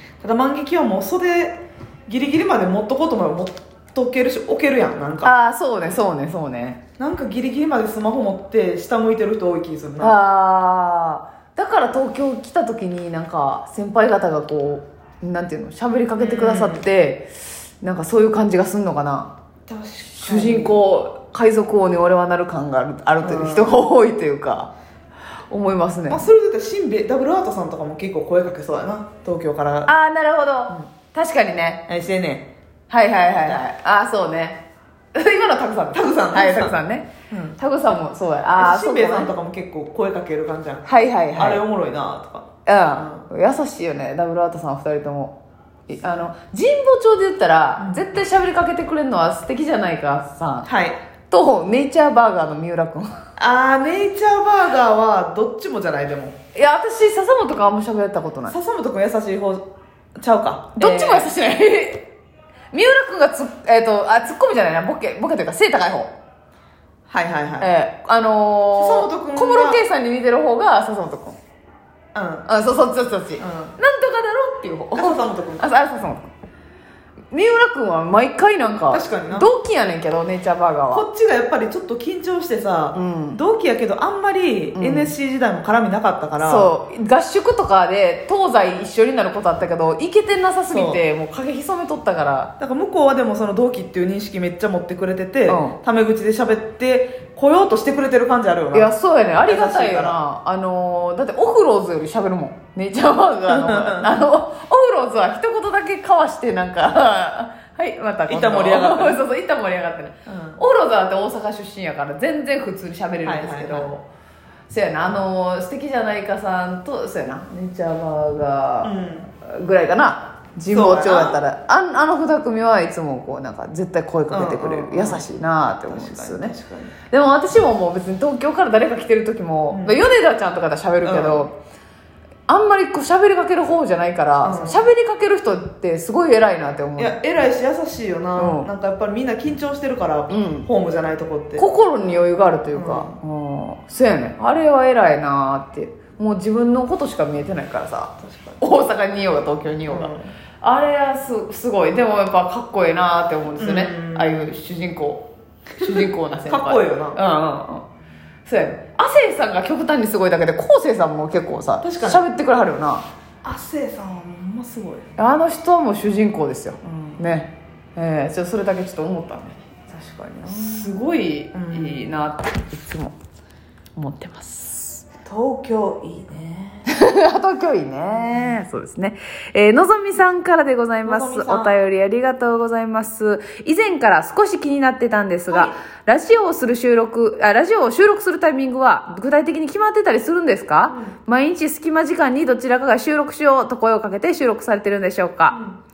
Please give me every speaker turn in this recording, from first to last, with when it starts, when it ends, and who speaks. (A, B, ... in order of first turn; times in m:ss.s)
0:00.2-0:05.3 A
0:05.2-0:06.8 B
0:07.0-0:10.1 A
0:10.0-0:19.3 B
0:16.2-0:16.8 A
0:19.7-0:20.7 A
0:20.2-0:24.7 B
0:23.2-0:23.8 A
0:25.5-0:26.3 B
0:26.1-0:29.9 A
0:29.9-0:31.8 B
0:31.9-0:32.5 A
0:32.9-0:39.3 B
0:33.3-0:33.6 A
0:35.9-0:36.8 A
0:37.3-0:37.6 A
0:38.5-0:43.2 A
0:40.8-0:41.6 B
0:42.6-0:50.7 B
0:47.8-0:48.1 A
0:50.6-0:51.0 A
0:51.3-0:53.1 B
0:53.4-0:56.3 A
0:56.5-0:58.6 B
0:58.5-1:01.3 A
1:00.8-1:02.1 B
1:02.7-1:06.1 B
1:07.1-1:07.7 A
1:07.6-1:11.4 B
1:08.7-1:09.8 A
1:12.1-1:12.5 A
1:12.4-1:16.3 B
1:13.4-1:13.8 A
1:14.9-1:15.7 A
1:17.3-1:21.0 B
1:18.9-1:19.5 A
1:20.9-1:26.7 A
1:22.9-1:23.4 B
1:24.8-1:25.1 B
1:26.4-1:32.5 B
1:30.7-1:31.0 A
1:32.6-1:38.9 A
1:35.5-1:35.8 B
1:38.7-1:54.1 B
1:39.4-1:40.2 A
1:43.5-1:44.1 A
1:48.3-1:49.2 A
1:50.2-1:50.6 A
1:53.2-1:53.9 A
1:54.7-2:06.5 B
1:58.8-1:59.3 A
2:00.7-2:01.4 A
2:04.3-2:05.2 A
2:05.9-2:06.9 A
2:07.1-2:11.6 B
2:09.7-2:10.0 A
2:11.0-2:11.4 A
2:12.5-2:17.2 B
2:14.4-2:14.9 A
2:17.0-2:21.7 A
2:18.4-2:18.7 B
2:20.3-2:20.7 B
2:21.6-2:37.8 B
2:22.7-2:23.2 A
2:28.2-2:28.6 A
2:29.9-2:30.3 A
2:33.6-2:34.5 A
2:35.8-2:37.2 A
2:38.4-2:43.0 B
2:41.8-2:42.2 A
2:43.4-2:45.1 A
2:45.2-2:49.6 B
2:46.8-2:47.2 A
2:49.9-2:51.0 A
2:50.3-2:53.1 B
2:51.5-2:52.1 A
2:54.0-2:55.0 B
2:55.2-2:56.8 A
2:56.9-3:15.6 B
2:58.1-2:58.6 A
3:01.0-3:01.7 A
3:05.5-3:05.8 A
3:10.9-3:11.1 A
3:15.5-3:15.8 A